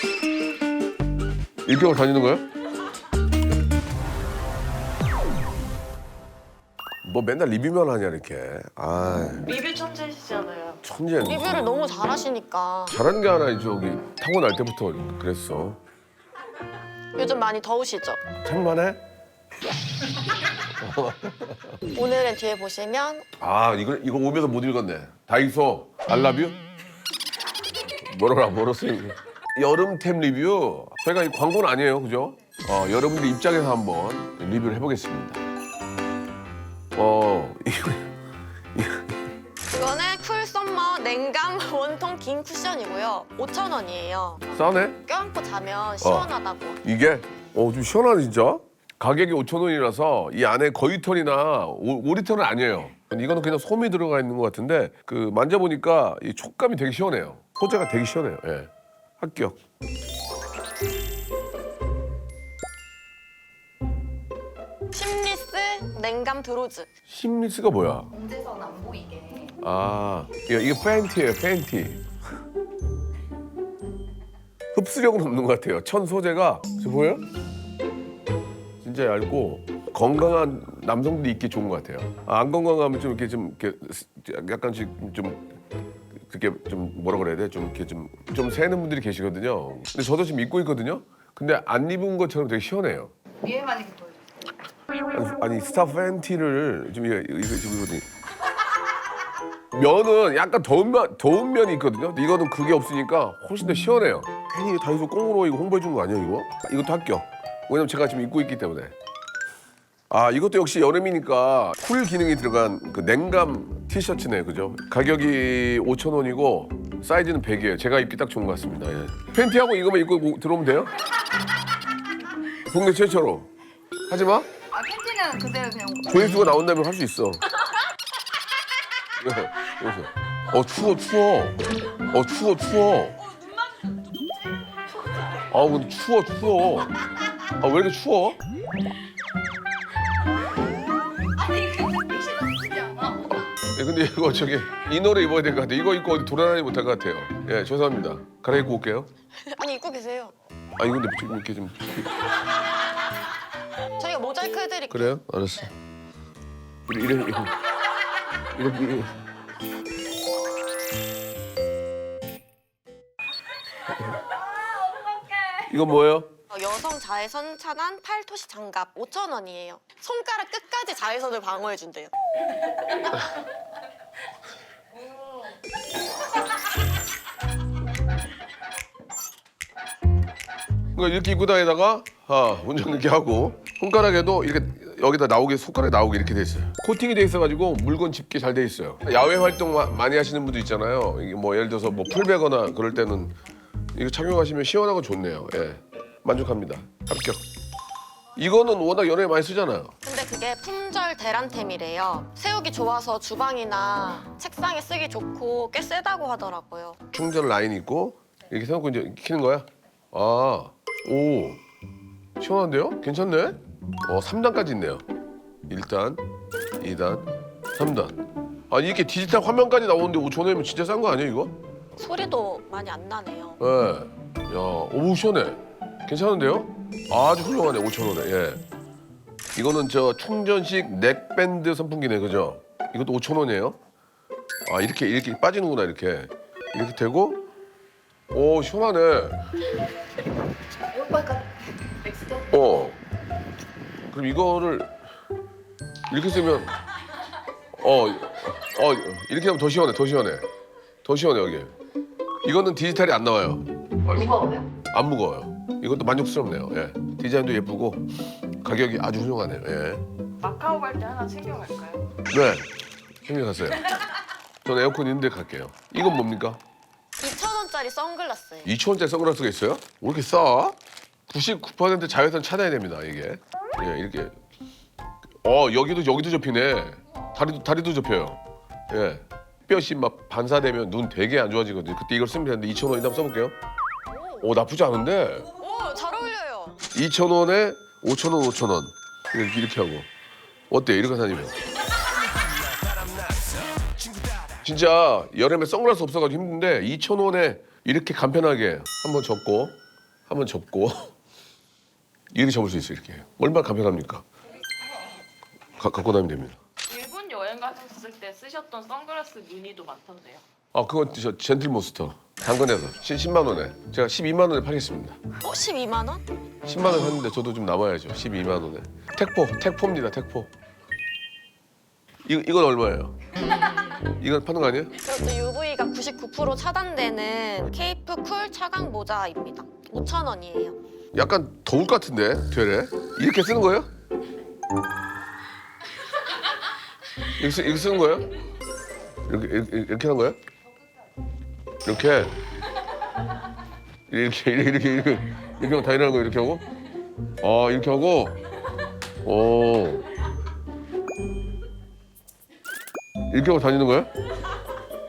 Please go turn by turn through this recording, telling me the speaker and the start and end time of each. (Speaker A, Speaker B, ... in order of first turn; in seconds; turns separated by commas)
Speaker A: 1.6-2.5, Speaker A: 7.0-9.5, Speaker B: 9.5-10.8, Speaker A: 10.8-11.7, Speaker C: 11.2-13.0, Speaker A: 12.9-15.8, Speaker C: 17.1-18.2, Speaker A: 18.4-19.0, Speaker A: 20.8-21.8, Speaker C: 21.9-23.3, Speaker A: 23.4-26.6, Speaker A: 28.0-35.4, Speaker A: 37.0-38.1, Speaker A: 38.7-39.1, Speaker C: 39.7-44.5, Speaker A: 44.5-45.0, Speaker C: 45.0-46.8, Speaker A: 46.0-46.3, Speaker A: 46.8-59.6, Speaker C: 64.9-66.9, Speaker A: 67.1-68.1, Speaker D: 68.1-69.6, Speaker A: 69.6-72.0, Speaker A: 74.7-77.2, Speaker A: 78.8-85.5, Speaker A: 86.2-93.1, Speaker D: 93.4-94.2, Speaker A: 95.1-98.0, Speaker A: 99.7-108.9, Speaker A: 110.1-120.9, Speaker A: 122.7-123.5, Speaker A: 124.1-124.5, Speaker D: 124.7-126.4, Speaker A: 126.1-127.4, Speaker A: 129.2-131.6, Speaker A: 132.1-133.2, Speaker A: 135.5-136.9, Speaker A: 137.6-138.4, Speaker D: 141.4-143.4, Speaker A: 143.6-149.1, Speaker C: 149.5-150.3, Speaker A: 150.8-152.2, Speaker C: 154.0-155.2, Speaker A: 154.9-155.7, Speaker A: 156.9-157.6, Speaker A: 158.5-159.2, Speaker A: 165.7-166.3, Speaker C: 166.5-172.1, Speaker A: 180.9-193.4, Speaker A: 193.9-197.4, Speaker A: 198.4-199.9, Speaker C: 200.1-207.0, Speaker A: 207.1-211.6, Speaker A: 212.4-215.0, Speaker A: 215.7-216.2, Speaker A: 216.8-221.6, Speaker C: 222.0-223.6, Speaker A: 223.6-228.6, Speaker A: 229.6-233.8, Speaker A: 234.7-237.4, Speaker A: 238.3-239.4, Speaker D: 240.9-242.5, Speaker A: 242.5-243.0, Speaker A: 244.0-244.9, Speaker A: 246.1-246.7, Speaker A: 247.8-250.5, Speaker A: 251.1-251.7, Speaker A: 252.4-258.0, Speaker D: 254.3-254.6, Speaker A: 258.6-260.0, Speaker B: 260.4-262.1, Speaker A: 262.3-262.7, Speaker A: 263.2-263.9, Speaker A: 264.6-266.6, Speaker C: 267.2-268.7, Speaker A: 268.6-270.8, Speaker A: 271.3-274.4, Speaker A: 275.4-283.6, Speaker C: 284.1-284.4, Speaker A: 284.4-285.5, Speaker C: 285.6-286.8, Speaker A: 286.9-290.1, Speaker A: 290.7-291.6, Speaker A: 294.6-301.1, Speaker A: 302.3-304.2, Speaker A: 305.8-306.6, Speaker B: 306.9-310.4, Speaker A: 310.7-315.2, Speaker C: 315.4-316.2, Speaker A: 316.6-320.5, Speaker A: 322.2-323.2, Speaker A: 324.2-325.0, Speaker C: 325.0-330.8, Speaker A: 331.1-333.9, Speaker A: 337.4-338.3, Speaker A: 339.3-340.4, Speaker A: 341.9-342.4, Speaker A: 344.1-346.7, Speaker A: 347.4-348.4, Speaker A: 349.2-350.1, Speaker A: 353.3-354.1